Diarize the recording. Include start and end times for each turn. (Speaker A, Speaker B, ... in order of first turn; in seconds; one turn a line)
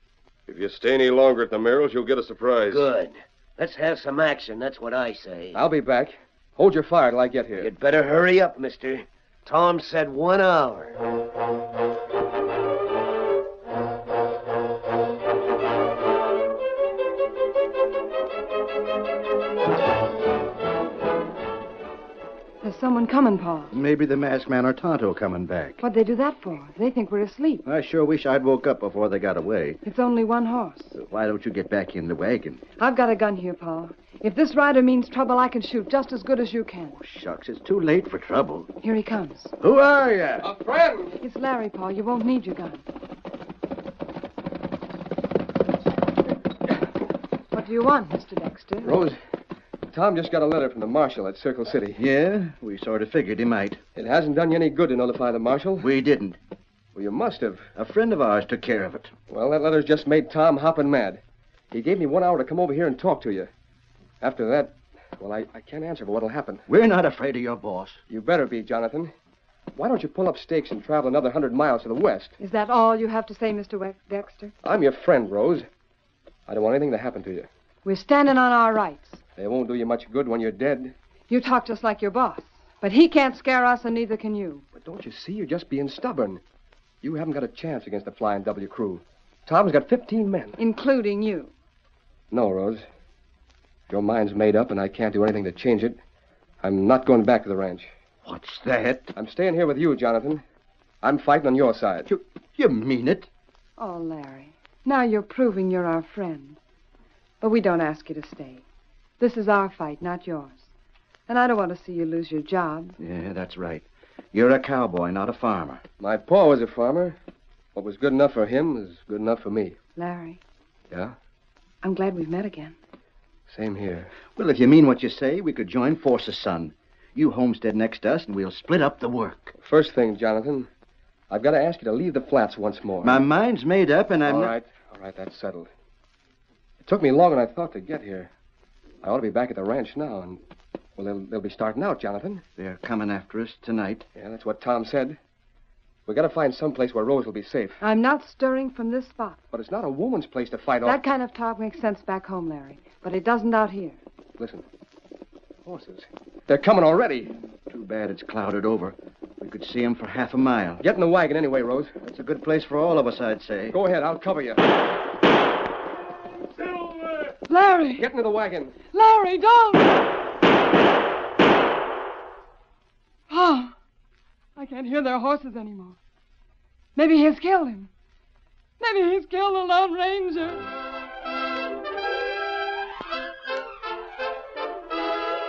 Speaker A: 0.5-2.9
Speaker B: 2.7-5.6
Speaker C: 5.5-7.7
Speaker B: 7.6-10.9
Speaker D: 22.6-23.7
Speaker E: 23.7-25.8
Speaker D: 25.8-27.6
Speaker E: 27.6-29.8
Speaker D: 29.8-30.9
Speaker E: 30.9-32.6
Speaker D: 32.8-37.0
Speaker E: 37.0-38.7
Speaker D: 38.8-39.5
Speaker E: 39.6-40.5
Speaker C: 40.4-41.2
Speaker D: 41.2-42.8
Speaker D: 47.5-48.9
Speaker C: 48.8-49.2
Speaker C: 49.9-52.0
Speaker E: 52.0-53.8
Speaker C: 54.0-55.9
Speaker E: 55.8-56.4
Speaker C: 56.9-57.7
Speaker E: 57.8-59.1
Speaker C: 59.3-63.5
Speaker C: 64.2-66.6
Speaker E: 66.7-68.0
Speaker C: 68.1-69.1
Speaker C: 69.8-72.3
Speaker D: 72.4-74.5
Speaker C: 74.6-75.7
Speaker C: 76.5-77.5
Speaker D: 77.8-79.2
Speaker C: 79.4-80.9
Speaker D: 81.3-84.6
Speaker C: 84.7-86.4
Speaker C: 87.0-90.6
Speaker D: 90.6-91.5
Speaker C: 92.3-92.8
Speaker C: 93.9-96.0
Speaker C: 96.6-97.9
Speaker E: 98.2-99.1
Speaker C: 99.1-100.4
Speaker C: 101.0-102.1
Speaker E: 102.1-103.3
Speaker D: 103.8-106.6
Speaker D: 107.4-108.6
Speaker D: 109.2-110.6
Speaker D: 111.3-113.0
Speaker E: 113.0-115.8
Speaker C: 116.0-117.2
Speaker C: 117.7-119.8
Speaker D: 120.0-120.4
Speaker D: 121.8-122.8
Speaker C: 123.5-124.1
Speaker E: 124.3-129.5
Speaker C: 129.6-130.7
Speaker C: 131.3-133.2
Speaker E: 133.0-134.5
Speaker C: 134.2-135.7
Speaker C: 136.8-138.3
Speaker C: 139.0-140.4
Speaker C: 141.0-142.4
Speaker E: 142.6-144.0
Speaker C: 144.2-145.2
Speaker C: 146.1-147.8
Speaker D: 147.8-149.4
Speaker C: 149.5-151.0
Speaker D: 150.8-154.0
Speaker C: 154.4-154.6
Speaker C: 155.7-157.3
Speaker E: 157.7-160.8
Speaker C: 160.8-161.9
Speaker E: 162.0-163.8
Speaker C: 163.7-164.6
Speaker D: 167.5-168.0
Speaker C: 168.0-168.8
Speaker D: 168.9-170.0
Speaker D: 173.3-173.7
Speaker D: 174.6-176.0
Speaker D: 176.9-177.9
Speaker D: 178.8-180.6